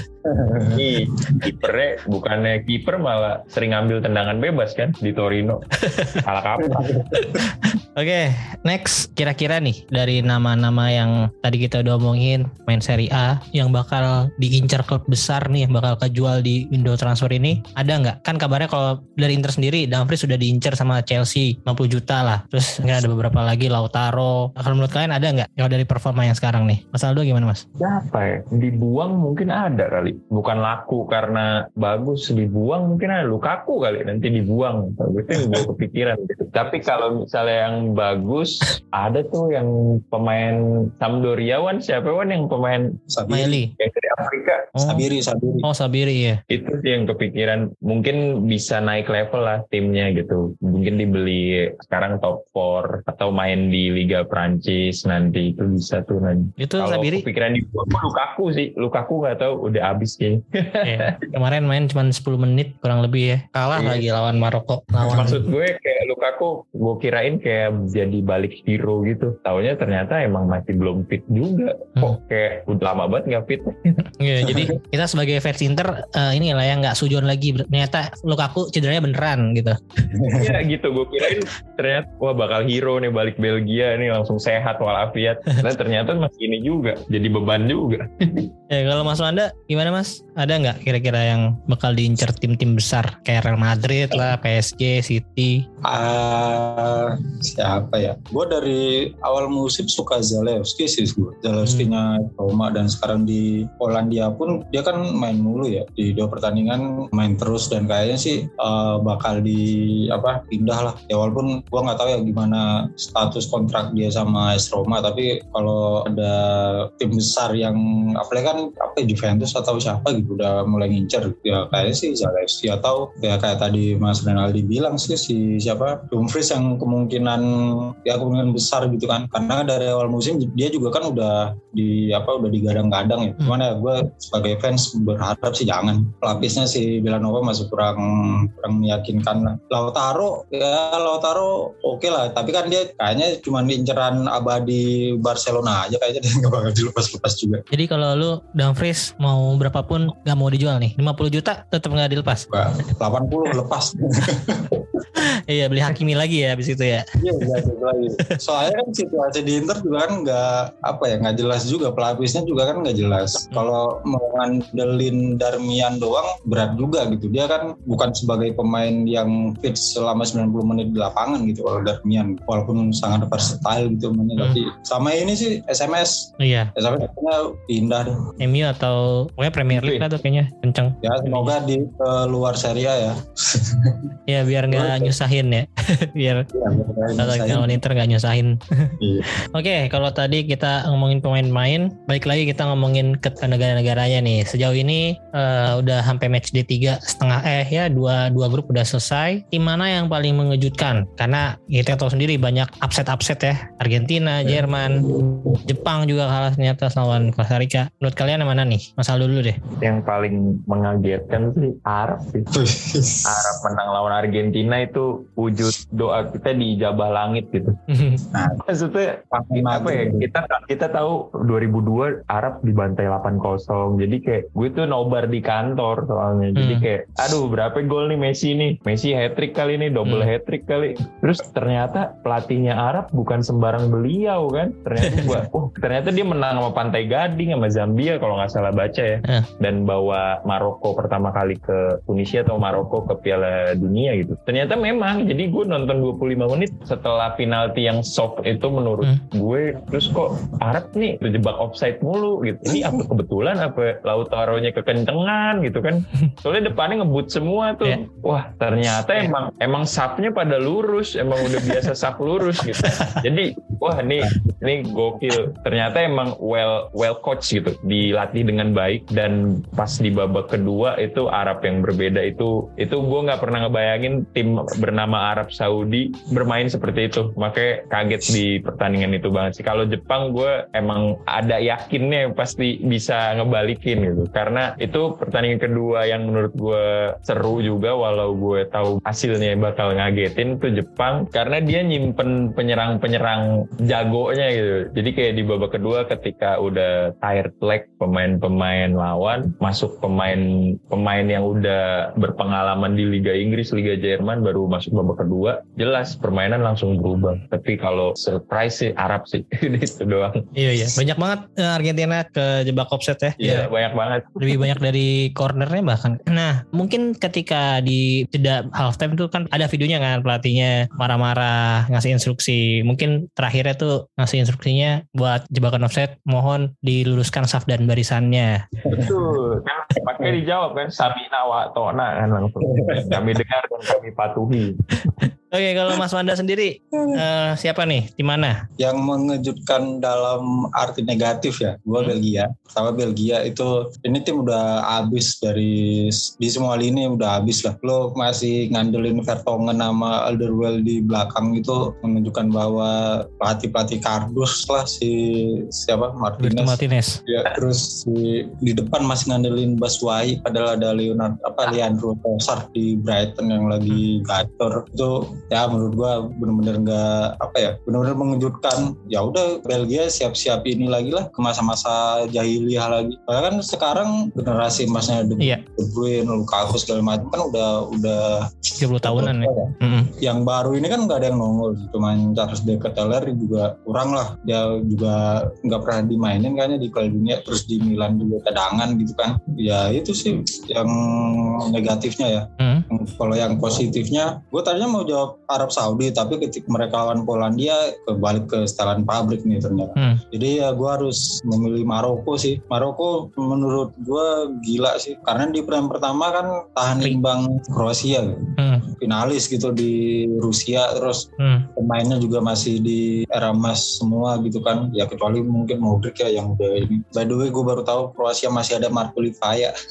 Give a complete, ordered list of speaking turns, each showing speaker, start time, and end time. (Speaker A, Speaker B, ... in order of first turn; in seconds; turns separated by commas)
Speaker A: 0.3-1.4, Speaker B: 0.7-5.7, Speaker C: 5.8-6.2, Speaker B: 6.2-7.0, Speaker A: 6.7-7.4, Speaker C: 7.2-27.6, Speaker B: 27.8-43.0, Speaker A: 43.1-43.6, Speaker C: 43.3-43.7, Speaker B: 43.8-44.7, Speaker C: 44.8-45.0, Speaker A: 44.8-45.6, Speaker C: 45.6-46.4, Speaker B: 46.5-61.2, Speaker C: 56.6-57.2, Speaker C: 60.8-65.4, Speaker B: 63.7-64.0, Speaker B: 65.1-73.9, Speaker C: 74.2-80.1, Speaker A: 80.1-80.6, Speaker B: 80.3-88.5, Speaker C: 88.7-95.6, Speaker A: 95.8-147.6, Speaker C: 101.6-101.9, Speaker C: 147.7-152.4, Speaker A: 152.5-155.0, Speaker C: 155.2-157.6, Speaker A: 157.2-178.3, Speaker C: 176.4-176.7, Speaker C: 178.4-181.5, Speaker B: 179.7-180.1, Speaker A: 181.0-184.1, Speaker C: 184.3-186.5, Speaker A: 184.7-185.2, Speaker A: 186.5-187.8, Speaker C: 187.2-188.9, Speaker A: 189.0-189.2, Speaker C: 189.5-209.6, Speaker B: 209.8-212.5, Speaker A: 212.5-213.5, Speaker B: 213.2-217.8, Speaker C: 217.9-218.2, Speaker A: 218.3-218.6, Speaker B: 218.7-310.5, Speaker A: 219.3-220.3, Speaker C: 226.6-226.9, Speaker C: 235.0-235.4, Speaker A: 252.7-253.0, Speaker C: 261.4-261.9, Speaker C: 262.6-263.2, Speaker C: 310.6-313.7, Speaker B: 313.4-314.7, Speaker C: 314.4-328.6, Speaker A: 328.8-329.2, Speaker B: 328.9-334.8, Speaker A: 332.7-333.2, Speaker C: 335.1-338.6, Speaker A: 338.8-411.2, Speaker C: 356.4-357.2, Speaker C: 378.8-380.1, Speaker C: 392.6-392.9, Speaker C: 408.6-408.9, Speaker C: 411.4-411.7, Speaker A: 411.8-419.7